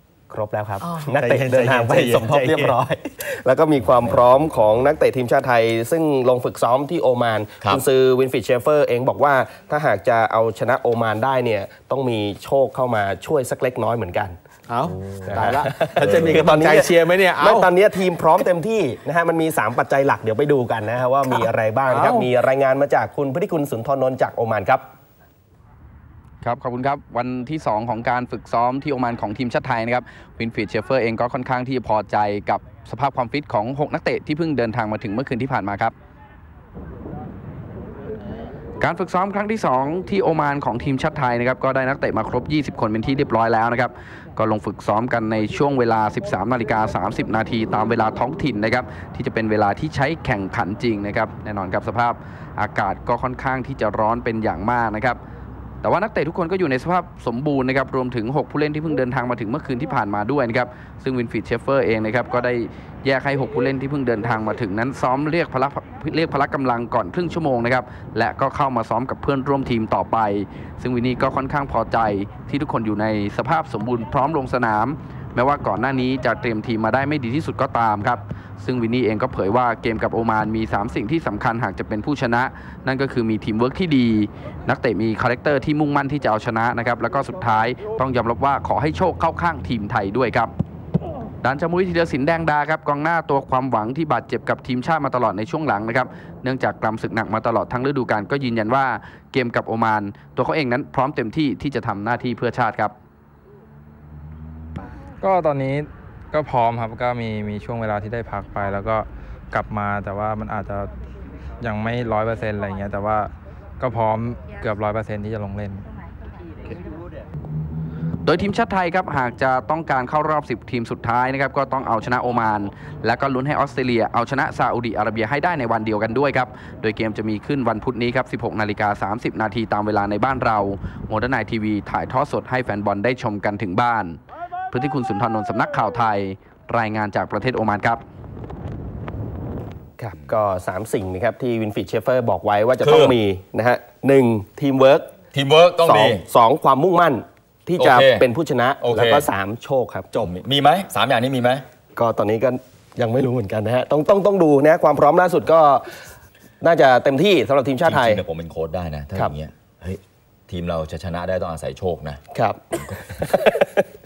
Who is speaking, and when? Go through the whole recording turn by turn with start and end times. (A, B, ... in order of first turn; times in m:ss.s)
0:00.3-0:14.4 A
0:01.1-0:02.8 B
0:14.7-0:17.6 B
0:15.2-0:24.8 A
0:16.0-0:16.5 C
0:21.9-0:22.2 B
0:26.4-0:35.9 D
0:38.8-0:55.2 D
0:55.8-1:30.5 D
1:31.4-1:42.9 D
1:45.2-1:50.9 E
1:51.6-1:55.8 E
1:58.2-2:14.2 D
2:14.7-2:18.0 D
2:20.0-2:25.1 A
2:22.8-2:23.2 C
2:25.3-2:26.2 C
2:25.8-2:30.1 A
2:27.8-2:28.2 C
2:28.8-2:29.3 C
2:30.1-2:31.6 C
2:31.9-2:35.8 A
2:36.6-2:38.2 A
2:37.8-2:42.2 C
2:42.3-2:43.7 A